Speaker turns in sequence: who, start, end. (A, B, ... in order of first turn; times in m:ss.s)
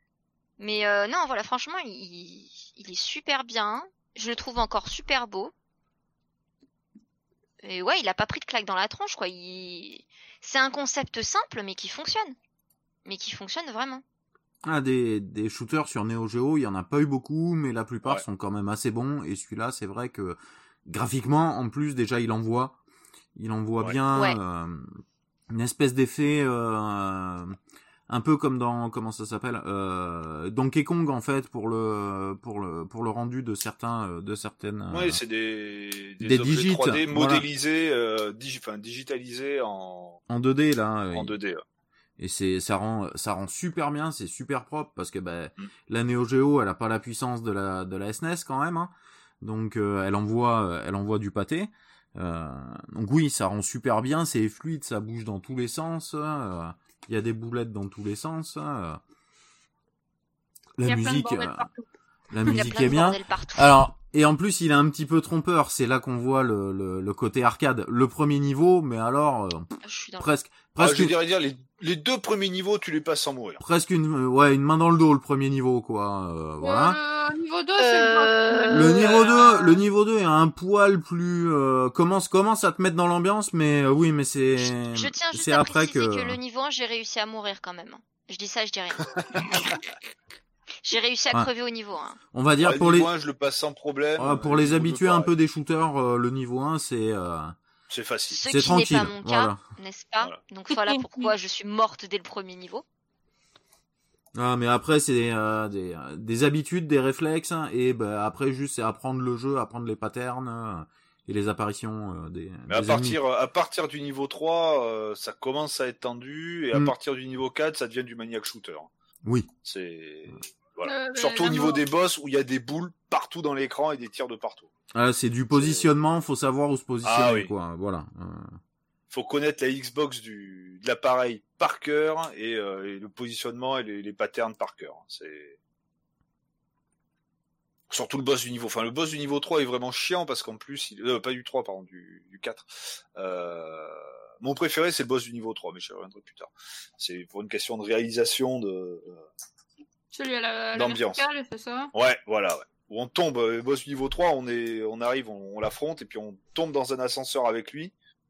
0:00.6-0:05.5 A
0:07.6-0:12.3 A
0:13.0-0:14.0 A
0:14.6-0:22.8 B
0:23.3-0:27.6 B
0:28.1-0:35.2 B
0:34.9-0:40.2 C
0:36.2-0:37.4 B
0:40.3-0:41.4 B
0:41.1-0:41.6 C
0:42.2-0:59.0 B
1:00.8-1:01.7 B
1:00.8-1:01.8 D
1:02.3-1:11.1 B
1:02.5-1:03.7 A
1:09.8-1:10.3 A
1:10.8-1:13.6 C
1:13.6-1:17.0 B
1:16.6-1:19.4 D
1:17.8-1:19.8 A
1:18.7-1:26.4 B
1:24.8-1:29.1 A
1:30.8-1:32.2 A
1:32.3-1:33.1 B
1:32.6-1:35.3 C
1:34.2-1:37.6 B
1:37.9-1:38.4 C
1:38.3-1:42.8 A
1:38.5-1:39.6 B
1:40.7-1:41.3 D
1:44.3-1:53.2 B
1:52.7-1:58.9 C
1:59.6-2:04.7 C
2:00.8-2:01.8 D
2:04.9-2:08.6 B
2:05.5-2:05.8 C
2:07.0-2:07.5 C
2:09.1-2:15.6 C
2:17.9-2:29.2 C
2:30.1-2:31.9 D
2:30.7-2:31.2 C
2:31.9-2:37.9 C